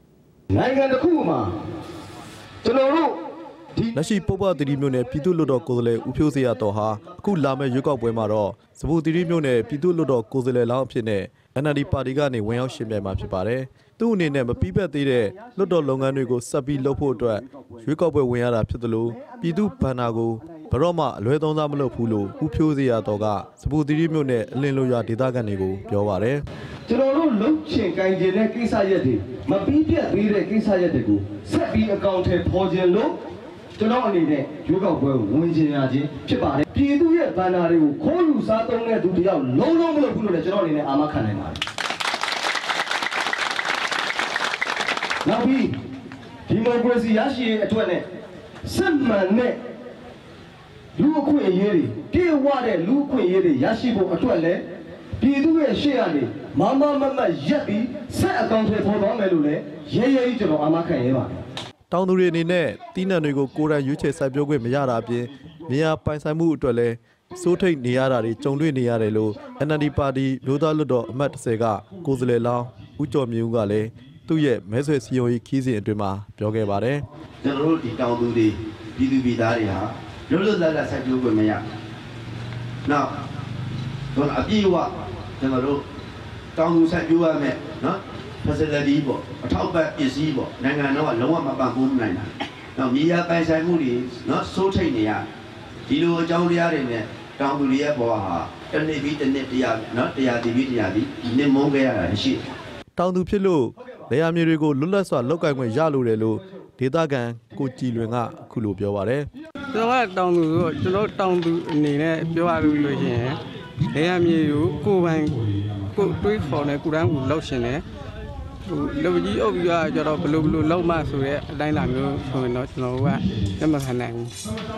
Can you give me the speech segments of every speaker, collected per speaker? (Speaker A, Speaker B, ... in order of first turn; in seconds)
Speaker A: 0.5-1.5, 2.6-3.2, 26.9-33.2, 33.8-41.6, 45.2-45.8, 46.5-48.0, 48.6-49.6, 51.0-54.6, 55.2-61.4
Speaker B: 4.0-26.4, 61.9-77.0, 103.0-109.3
Speaker C: 77.4-81.6, 84.2-85.8, 86.5-95.2, 95.9-102.4
Speaker D: 109.7-113.4, 113.9-115.4, 115.9-117.8, 118.7-124.3